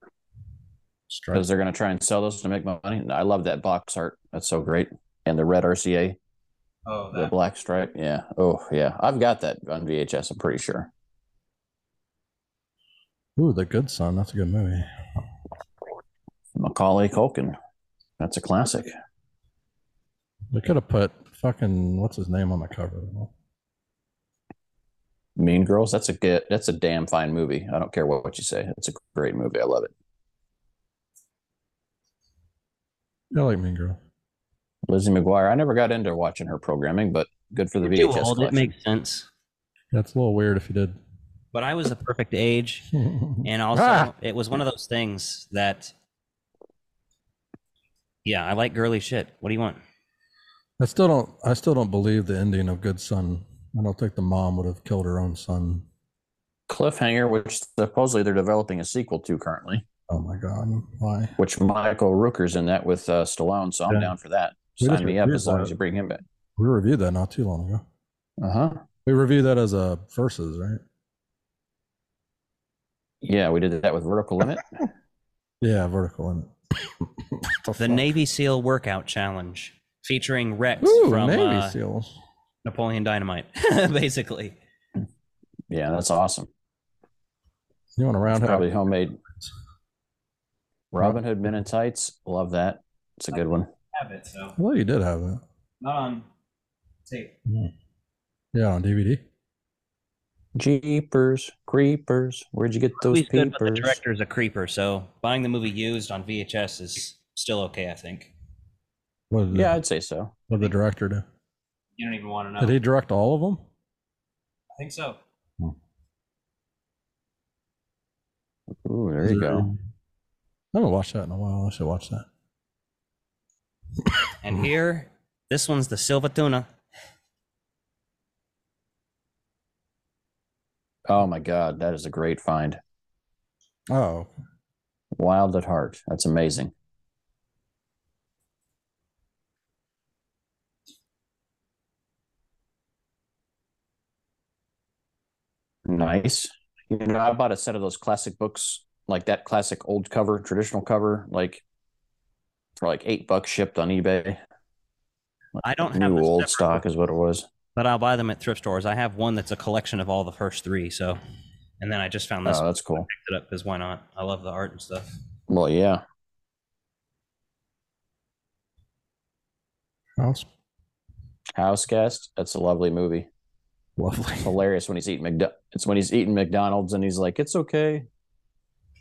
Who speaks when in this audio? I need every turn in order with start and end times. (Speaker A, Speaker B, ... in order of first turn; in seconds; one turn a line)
Speaker A: 1.1-1.4
Speaker B: 1.3-6.2
Speaker C: 6.9-7.3
Speaker B: 7.1-10.9
Speaker A: 13.4-14.9
Speaker B: 16.6-17.6
Speaker B: 18.2-18.9
Speaker A: 20.5-23.3
Speaker B: 25.4-29.9
Speaker A: 33.3-34.0
Speaker B: 34.9-38.7
Speaker C: 37.8-39.3
Speaker A: 39.9-41.0
Speaker C: 41.5-42.9
Speaker A: 43.0-44.1
Speaker C: 43.4-45.9
Speaker C: 48.2-49.8
Speaker A: 50.8-55.9
Speaker B: 56.7-59.9
Speaker A: 60.1-61.3
Speaker B: 61.4-66.2
Speaker A: 64.8-65.7
Speaker A: 66.6-67.8
Speaker B: 68.4-68.8
Speaker A: 69.0-70.8
Speaker B: 73.2-74.7
Speaker A: 75.6-78.1
Speaker C: 77.8-81.8
Speaker A: 80.8-82.2
Speaker C: 82.7-84.6
Speaker B: 85.7-86.5
Speaker A: 88.0-88.7
Speaker B: 88.3-89.2
Speaker B: 90.9-93.7
Speaker C: 93.9-94.6
Speaker A: 94.6-95.4
Speaker C: 95.8-96.3
Speaker C: 97.1-97.3
Speaker A: 97.5-97.7
Speaker A: 98.5-99.2
Speaker B: 100.6-104.0
Speaker C: 103.0-108.3
Speaker A: 109.3-109.8
Speaker B: 109.5-110.3
Speaker A: 110.5-111.2
Speaker C: 112.0-112.8
Speaker A: 112.6-113.6
Speaker C: 114.8-115.2
Speaker B: 118.8-119.7
Speaker A: 119.2-119.8
Speaker A: 120.7-122.3
Speaker A: 124.0-124.6
Speaker C: 124.4-126.7
Speaker B: 131.1-132.8
Speaker A: 133.9-134.4
Speaker B: 135.2-136.7
Speaker B: 145.9-151.6
Speaker B: 152.8-154.4
Speaker B: 155.6-157.4
Speaker C: 155.6-156.8
Speaker C: 157.8-161.2
Speaker C: 161.8-165.1
Speaker B: 162.5-163.1
Speaker B: 165.5-166.0
Speaker A: 170.2-170.5
Speaker B: 171.6-173.3
Speaker A: 174.0-174.6
Speaker B: 174.4-178.1